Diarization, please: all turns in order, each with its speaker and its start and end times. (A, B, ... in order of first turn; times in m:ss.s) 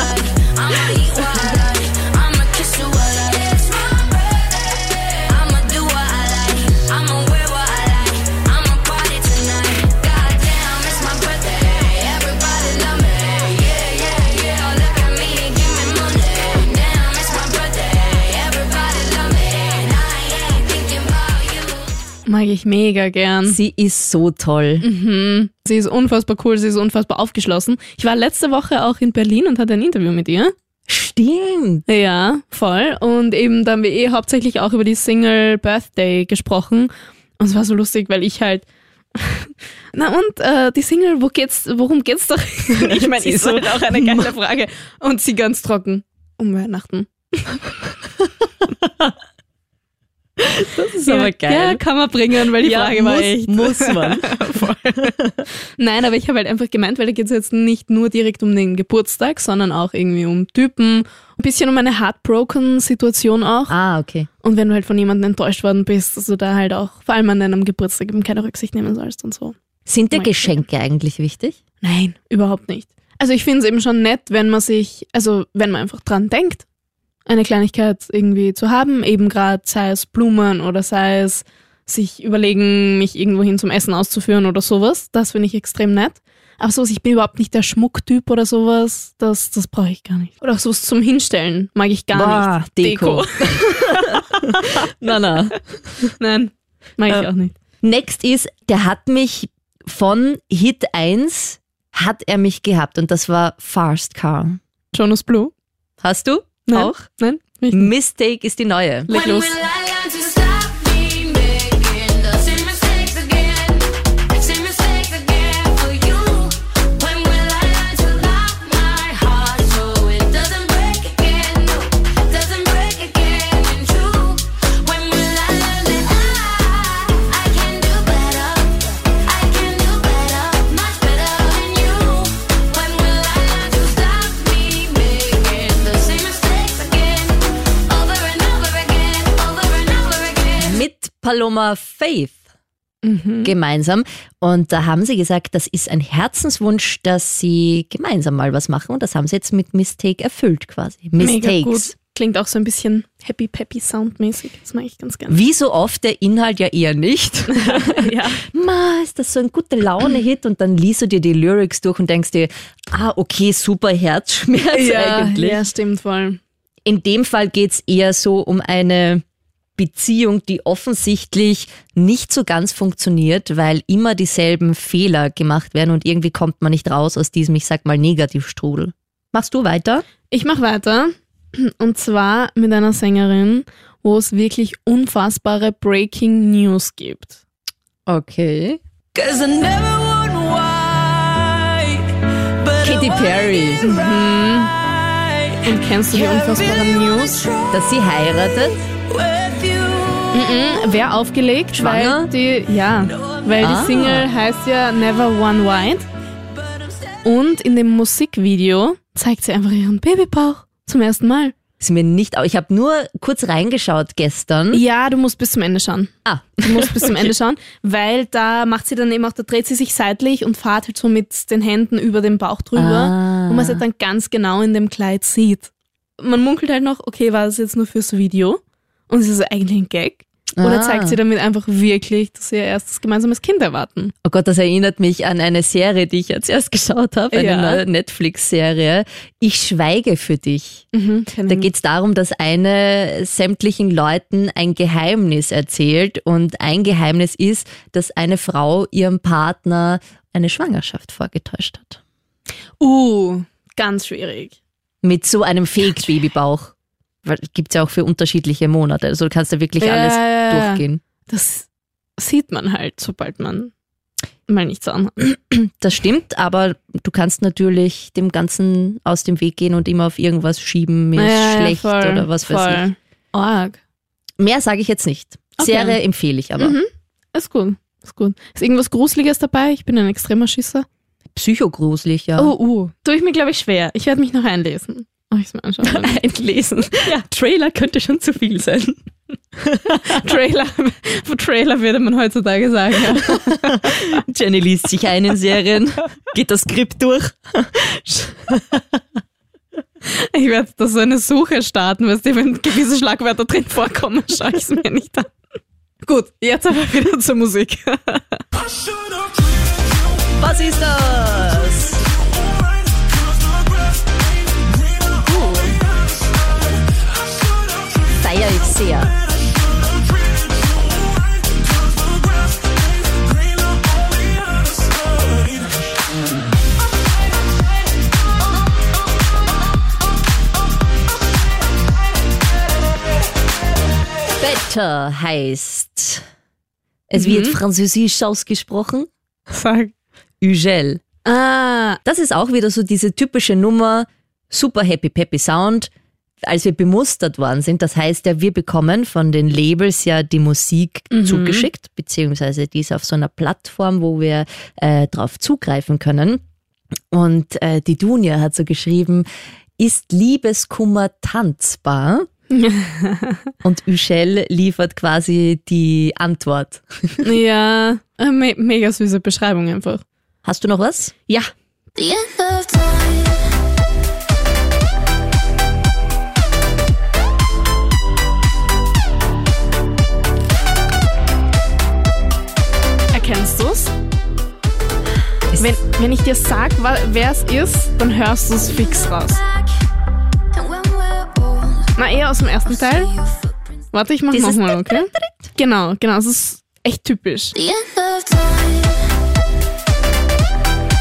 0:00.3-0:21.8 A
0:22.2-0:23.6 B
0:23.4-0:24.8 C
0:24.8-0:30.5 B
0:30.9-0:31.8 C
0:31.9-0:47.8 B
0:42.7-0:44.3 C
0:48.8-0:49.1 C
0:50.4-0:51.8 C
0:51.0-0:55.1 B
0:52.4-0:55.4 C
0:55.8-1:03.8 B
1:03.7-1:04.3 C
1:04.4-1:09.6 B
1:09.9-1:11.6 C
1:10.1-1:10.6 B
1:11.8-1:16.7 B
1:17.3-1:34.8 B
1:32.1-1:36.1 C
1:36.2-1:37.5 B
1:37.8-1:44.6 C
1:44.9-1:45.5 B
1:46.0-1:46.9 C
1:46.6-1:47.9 B
1:47.7-1:49.1 C
1:49.1-1:49.6 B
1:49.2-2:20.6 A
2:03.9-2:04.4 C
2:20.6-2:22.4 C
2:23.0-2:23.5 B
2:23.4-2:31.9 C
2:31.2-2:35.4 B
2:35.3-2:45.6 C
2:37.5-2:38.4 B
2:44.7-2:46.4 B
2:46.8-2:49.2 C
2:49.8-3:00.0 C
3:00.3-3:07.4 B
3:08.1-3:08.8 C
3:09.2-3:12.0 D
3:12.8-3:13.9 C
3:13.8-3:14.8 B
3:15.6-3:17.5 B
3:17.7-3:18.9 C
3:19.7-3:20.2 C
3:20.3-3:26.0 B
3:21.7-3:22.3 C
3:23.6-3:24.3 C
3:27.2-3:31.5 B
3:31.8-3:34.8 C
3:34.7-3:54.1 B
3:36.3-3:37.3 C
3:42.8-3:43.8 C
3:50.6-3:51.2 C
3:54.2-4:00.8 C
3:57.3-3:57.8 B
4:00.9-4:01.7 B
4:01.5-4:12.0 C
4:12.8-4:14.6 B
4:15.0-4:16.7 C
4:17.2-4:21.0 C
4:19.8-4:23.7 B
4:24.5-4:25.4 B
4:25.5-4:32.9 C
4:31.1-4:33.8 B
4:34.4-4:36.8 C
4:35.6-4:36.0 B
4:36.6-4:40.9 B
4:41.3-4:42.5 C
4:42.4-4:47.2 B
4:45.8-4:49.0 C
4:49.6-4:50.2 C
4:49.9-4:54.0 B
4:53.1-4:58.8 C
5:00.0-5:05.4 B
5:06.0-5:08.4 B
5:10.4-5:12.1 C
5:15.3-5:15.8 B
5:18.1-5:19.2 C
5:34.4-5:36.2 C
5:37.1-5:39.1 C
5:37.1-5:37.6 B
5:39.5-5:39.9 B
5:40.4-5:41.0 C
5:41.2-5:42.0 B
5:42.0-5:45.9 C
5:46.4-5:56.4 C
5:51.1-5:51.7 B
5:57.1-5:59.2 C
5:59.8-6:02.3 C
6:02.5-6:03.5 B
6:03.6-6:07.2 C
6:07.2-6:10.0 B
6:10.4-6:11.3 C
6:12.0-6:12.3 B
6:23.1-6:23.9 B
6:25.6-6:29.4 B
6:31.2-6:31.7 A
6:31.9-6:33.2 B
6:33.9-6:37.7 B
6:34.3-6:35.4 C
6:38.0-6:38.2 A